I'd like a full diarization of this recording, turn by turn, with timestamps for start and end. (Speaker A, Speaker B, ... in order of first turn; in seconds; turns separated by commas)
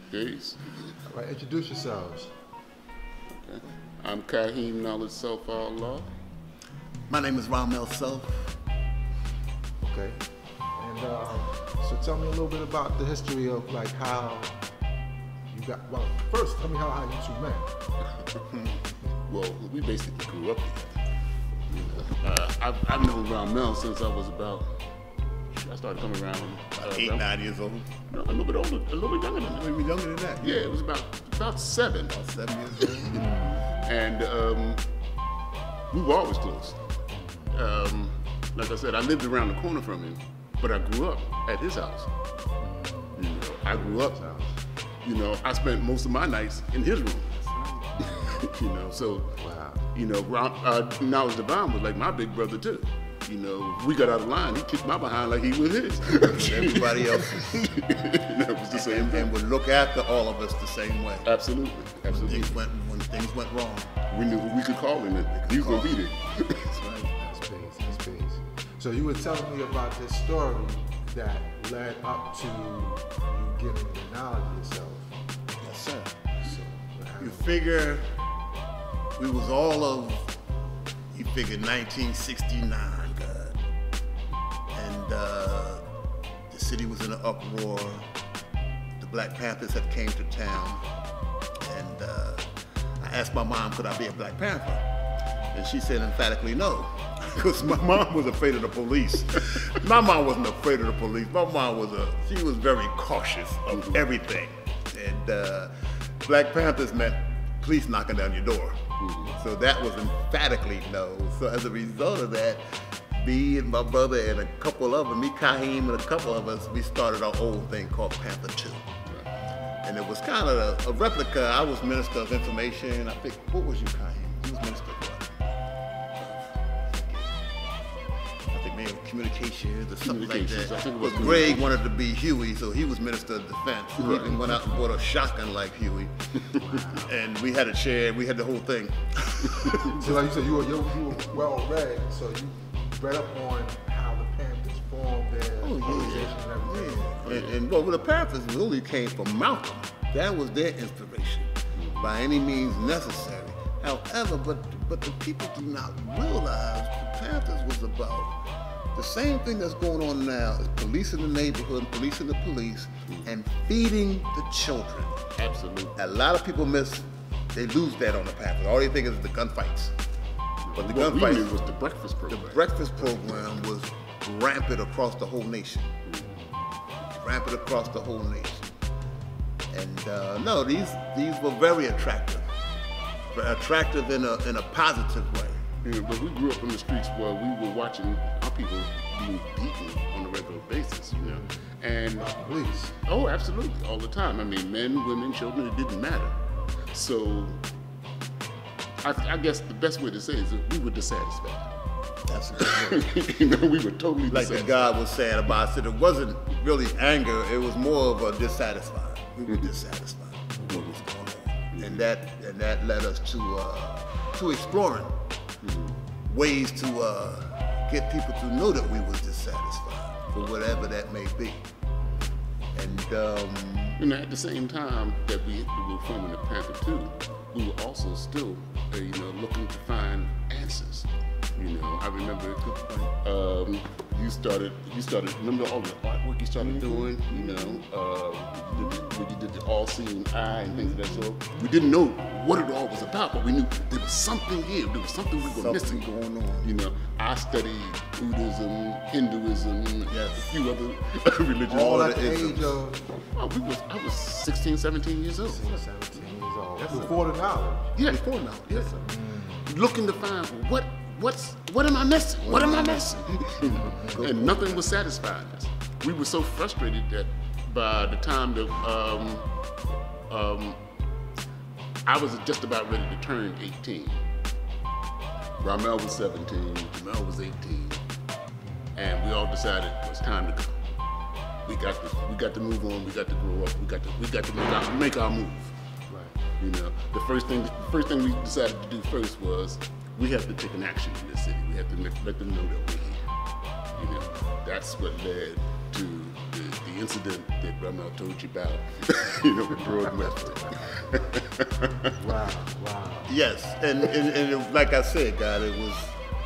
Speaker A: 0.1-0.9, Speaker B: 1.1-2.3, Speaker A: 3.3-6.1, Speaker C: 7.1-8.6, Speaker B: 9.8-10.2, Speaker B: 10.8-14.6, Speaker B: 15.5-17.7, Speaker A: 19.3-21.0, Speaker A: 21.7-24.7, Speaker A: 25.5-27.3, Speaker C: 26.8-27.9, Speaker A: 28.1-29.6, Speaker C: 29.5-30.7, Speaker A: 30.4-32.1, Speaker C: 32.1-33.7, Speaker A: 32.9-34.8, Speaker B: 33.1-33.6, Speaker A: 35.9-36.8, Speaker B: 37.1-37.5, Speaker A: 37.5-42.1, Speaker B: 42.6-44.5, Speaker A: 43.2-44.3, Speaker A: 45.0-47.4, Speaker B: 48.0-48.4, Speaker A: 48.0-49.4, Speaker B: 49.4-49.8, Speaker A: 49.9-59.3, Speaker C: 56.1-57.7, Speaker C: 58.7-61.3, Speaker A: 61.2-62.6, Speaker C: 62.1-64.0, Speaker A: 64.1-66.8, Speaker C: 65.4-66.0, Speaker C: 66.7-67.2, Speaker B: 67.2-75.1, Speaker C: 75.6-76.4, Speaker B: 76.4-77.6, Speaker C: 77.2-78.1, Speaker C: 79.2-80.4, Speaker C: 81.1-83.6, Speaker C: 84.7-85.8, Speaker C: 86.5-88.1, Speaker C: 89.0-90.8, Speaker C: 91.6-92.5, Speaker C: 93.0-94.8, Speaker C: 95.5-105.7, Speaker A: 103.7-104.0, Speaker C: 106.2-112.6, Speaker A: 109.0-109.3, Speaker C: 113.2-118.8, Speaker C: 119.8-125.4, Speaker C: 126.2-127.5, Speaker C: 128.5-136.1, Speaker A: 130.0-131.8, Speaker A: 134.0-134.7, Speaker B: 136.6-137.1, Speaker C: 136.8-140.1, Speaker A: 139.5-140.0, Speaker B: 139.9-147.5, Speaker C: 145.6-158.3, Speaker A: 145.9-146.4, Speaker A: 147.2-147.6, Speaker A: 151.8-152.1, Speaker C: 158.9-165.2, Speaker A: 165.4-166.0, Speaker C: 166.0-169.9, Speaker A: 170.7-173.2, Speaker C: 170.8-171.6, Speaker C: 172.3-175.9, Speaker B: 176.2-176.7, Speaker C: 177.1-178.7, Speaker C: 179.7-182.5, Speaker C: 183.3-185.7, Speaker A: 185.8-192.3, Speaker B: 191.2-191.7, Speaker B: 192.2-192.9, Speaker A: 193.1-196.4, Speaker B: 196.6-196.8, Speaker A: 196.9-197.6, Speaker A: 199.0-201.8, Speaker C: 202.3-203.1, Speaker A: 202.6-204.9, Speaker C: 204.3-215.1, Speaker A: 210.6-211.0, Speaker A: 211.8-212.1, Speaker A: 215.6-216.0, Speaker C: 216.3-221.7, Speaker A: 220.3-220.9, Speaker C: 222.8-224.0, Speaker A: 224.0-232.6, Speaker C: 232.6-233.1, Speaker A: 233.2-246.1, Speaker C: 236.6-237.8, Speaker C: 240.7-241.3, Speaker C: 245.4-246.7, Speaker A: 246.6-252.1, Speaker C: 250.1-250.6, Speaker C: 251.7-252.8, Speaker B: 251.7-253.1, Speaker A: 253.3-255.7, Speaker B: 255.4-257.9, Speaker C: 255.7-257.3, Speaker A: 257.9-259.0, Speaker C: 258.0-259.1, Speaker B: 259.0-259.7, Speaker A: 259.5-269.5, Speaker C: 262.4-263.3, Speaker B: 263.6-264.3, Speaker C: 263.8-265.0, Speaker A: 270.3-270.8, Speaker A: 272.1-274.2, Speaker A: 275.6-278.0, Speaker A: 278.9-280.8, Speaker A: 281.6-285.8, Speaker B: 286.1-286.4, Speaker A: 286.6-293.2, Speaker A: 293.9-302.1, Speaker B: 293.9-294.5, Speaker B: 300.4-301.0, Speaker B: 302.1-303.4, Speaker C: 303.3-306.2